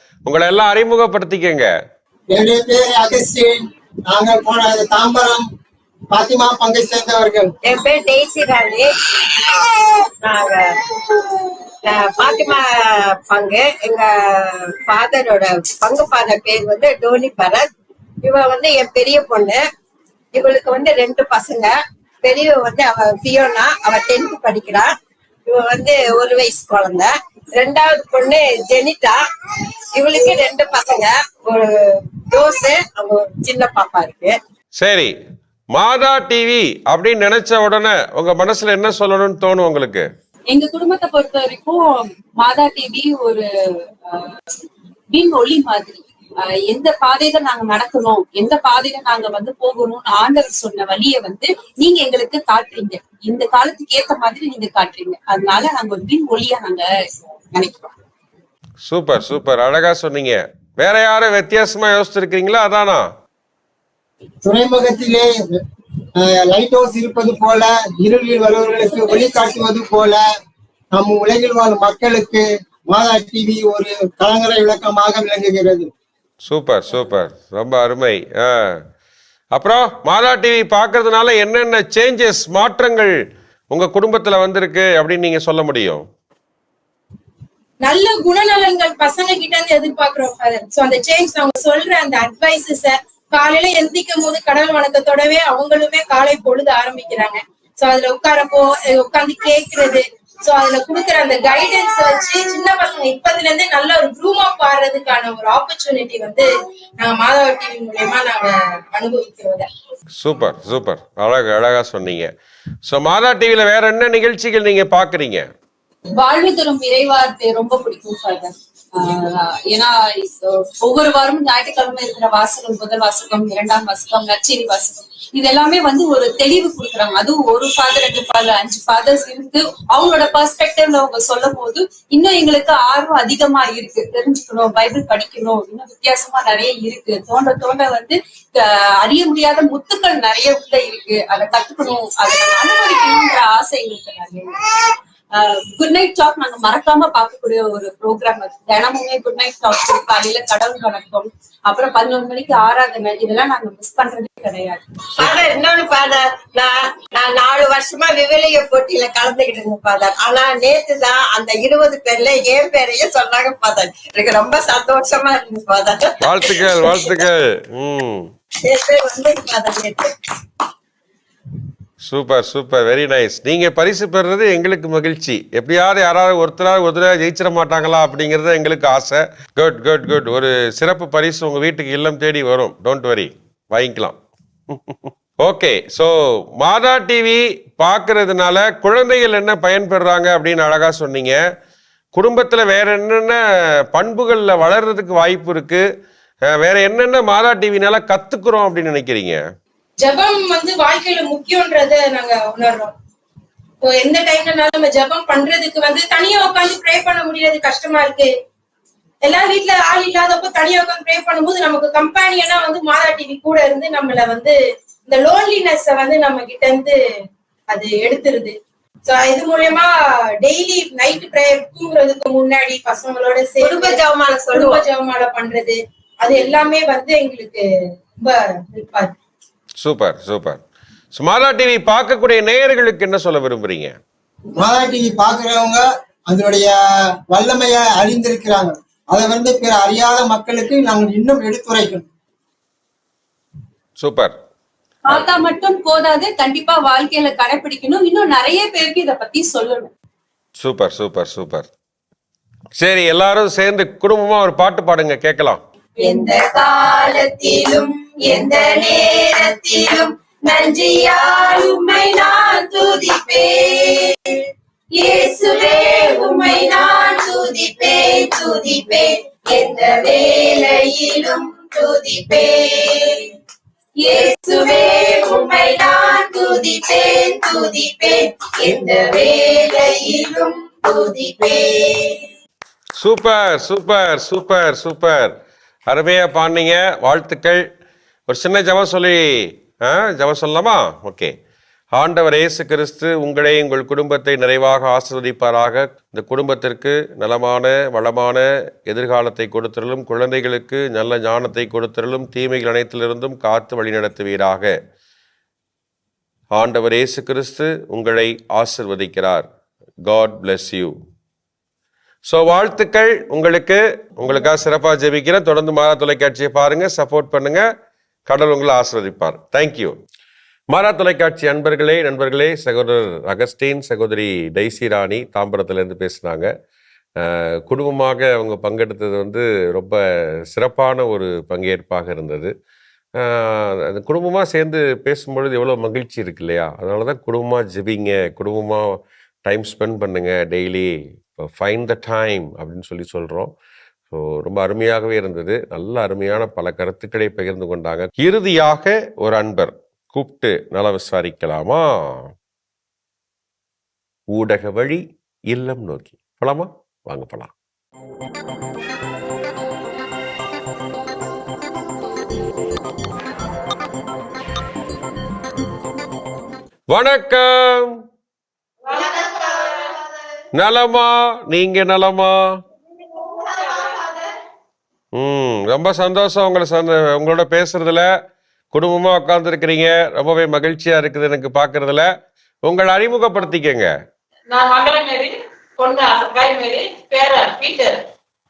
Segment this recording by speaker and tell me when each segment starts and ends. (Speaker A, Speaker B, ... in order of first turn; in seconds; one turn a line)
Speaker A: 0.3-1.7
Speaker B: 2.3-5.5
Speaker B: 6.1-7.5
Speaker C: 7.7-10.8
Speaker C: 11.8-17.7
Speaker C: 18.2-19.6
Speaker C: 20.4-24.9
Speaker C: 25.5-29.2
Speaker C: 29.9-34.4
Speaker A: 34.8-35.1
Speaker A: 35.7-40.0
Speaker D: 40.5-43.5
Speaker D: 44.1-44.3
Speaker D: 45.1-56.9
Speaker D: 57.5-57.9
Speaker A: 58.9-63.0
Speaker B: 64.5-65.6
Speaker B: 66.2-70.2
Speaker B: 70.9-75.9
Speaker A: 76.5-78.8
Speaker A: 79.5-83.1
Speaker A: 83.7-86.1
Speaker E: 87.8-106.5
Speaker E: 107.0-109.7
Speaker A: 110.2-112.3
Speaker A: 112.9-115.5
Speaker D: 116.2-144.5
Speaker D: 145.3-154.9
Speaker C: 155.2-167.1
Speaker A: 166.2-168.3
Speaker C: 168.6-170.1
Speaker A: 172.1-184.2
Speaker A: 184.7-191.4
Speaker A: 192.2-193.4
Speaker A: 193.9-195.8
Speaker A: 196.5-199.4
Speaker E: 200.0-202.9
Speaker E: 203.8-208.3
Speaker E: 209.2-214.6
Speaker E: 215.1-217.0
Speaker E: 217.7-219.9
Speaker E: 220.4-224.0
Speaker C: 223.6-224.8
Speaker E: 224.5-227.7
Speaker E: 228.2-229.1
Speaker A: 229.8-230.6
Speaker A: 231.2-233.9
Speaker B: 234.6-236.7
Speaker B: 237.3-242.1
Speaker A: 244.0-244.4
Speaker D: 245.1-249.9
Speaker A: 250.6-251.7
Speaker A: 252.8-255.6
Speaker C: 256.0-264.4
Speaker C: 265.0-273.3
Speaker D: 274.0-275.1
Speaker C: 274.1-282.2
Speaker A: 283.0-285.4
Speaker A: 285.9-287.6
Speaker A: 288.3-291.3
Speaker A: 292.0-304.8
Speaker A: 306.5-309.5
Speaker A: 310.1-310.9
Speaker A: 312.3-317.6
Speaker A: 318.3-320.0
Speaker A: 320.7-326.5
Speaker A: 327.2-332.5
Speaker A: 333.2-343.5
Speaker A: 344.1-352.3
Speaker A: 354.3-357.5
Speaker A: 366.9-368.0
Speaker F: 368.8-370.0
Speaker A: 370.6-372.4
Speaker F: 373.4-374.1
Speaker A: 375.2-378.1
Speaker A: 378.7-382.1
Speaker A: 382.7-383.9
Speaker F: 384.5-388.0